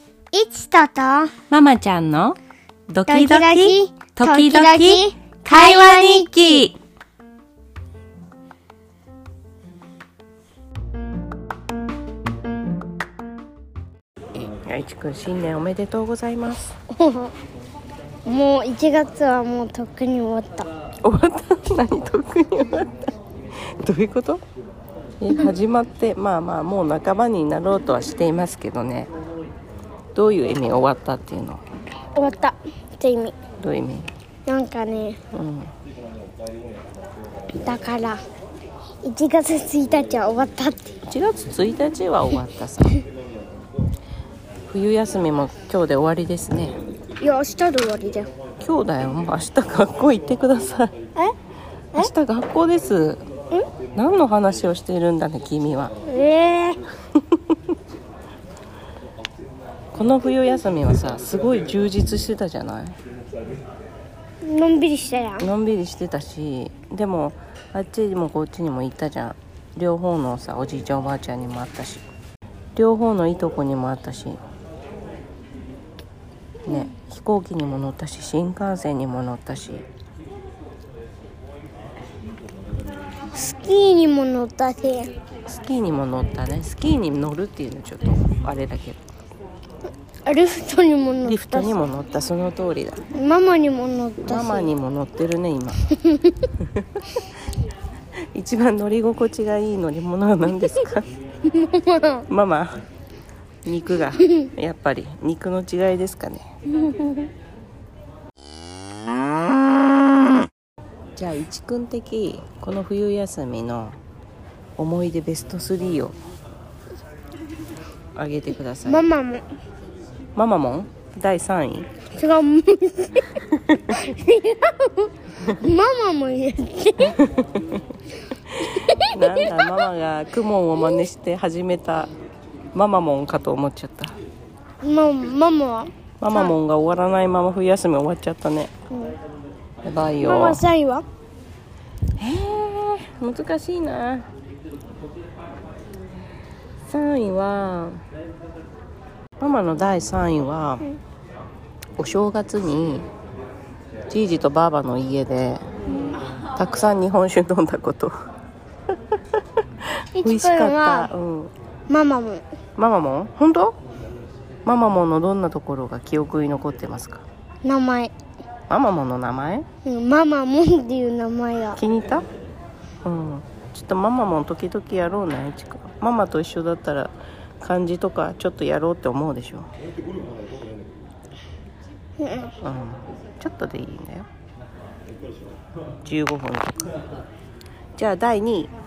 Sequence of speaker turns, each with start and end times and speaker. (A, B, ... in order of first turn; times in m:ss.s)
0:00.3-0:01.3 A
0:01.5-0:06.8 B
0:03.1-0:06.3 A
0:14.4-0:16.7 B
0:16.9-0:17.3 A
0:18.2-0:20.7 A
0:21.0-0:23.1 B
0:23.8-0:24.4 B
0:25.2-0:29.1 B
0:30.1-0:31.6 B
0:32.1-0:33.3 A
0:33.6-0:34.1 B
0:34.4-0:35.2 A
0:35.3-0:35.7 B
0:37.6-0:38.2 A
0:39.0-0:40.9 A
0:41.1-0:43.0 B
0:44.7-0:46.7 B
0:47.2-0:48.3 A
0:48.6-0:50.9 B
0:52.0-0:53.2 B
0:53.9-0:55.9 B
0:56.0-0:56.8 A
0:57.2-0:57.6 B
0:59.9-1:03.0 B
1:04.4-1:05.5 A
1:05.4-1:12.0 B
1:12.7-1:14.4 B
1:16.6-1:19.8 B
1:23.3-1:25.1 A
1:25.4-1:29.0 B
1:30.2-1:31.8 A
1:31.2-1:33.0 B
1:33.1-1:34.7 A
1:34.2-1:35.9 B
1:36.0-1:36.5 A
1:36.6-1:37.1 B
1:38.3-1:41.1 B
1:41.5-1:42.2 A
1:42.3-1:42.8 B
1:43.6-1:46.5 B
1:46.8-1:47.3 A
1:51.2-1:54.0 B
1:54.8-1:56.2 B
1:58.2-1:59.1 B
1:58.8-1:59.4 A
2:00.3-2:01.9 B
2:02.1-2:03.4 A
2:03.5-2:03.9 B
2:03.9-2:07.2 A
2:07.0-2:07.8 B
2:08.6-2:12.1 B
2:08.7-2:09.6 A
2:12.7-2:14.1 B
2:14.8-2:16.5 A
2:16.2-2:18.7 B
2:18.9-2:19.2 A
2:19.8-2:20.6 B
2:20.2-2:21.0 A
2:22.2-2:24.3 B
2:26.9-2:28.0 B
2:29.4-2:30.9 B
2:32.0-2:33.1 B
2:34.1-2:35.6 B
2:36.5-2:38.1 B
2:40.2-2:41.1 A
2:40.2-2:41.5 B
2:41.9-2:42.4 A
2:42.8-2:43.8 B
2:44.6-2:47.2 B
2:47.6-2:48.1 A
2:48.7-2:49.6 B
2:49.8-2:51.8 A
2:51.8-2:52.2 B
2:53.0-2:59.7 B
3:02.2-3:02.5 A
3:02.6-3:04.3 B
3:06.0-3:06.9 B
3:08.0-3:08.7 B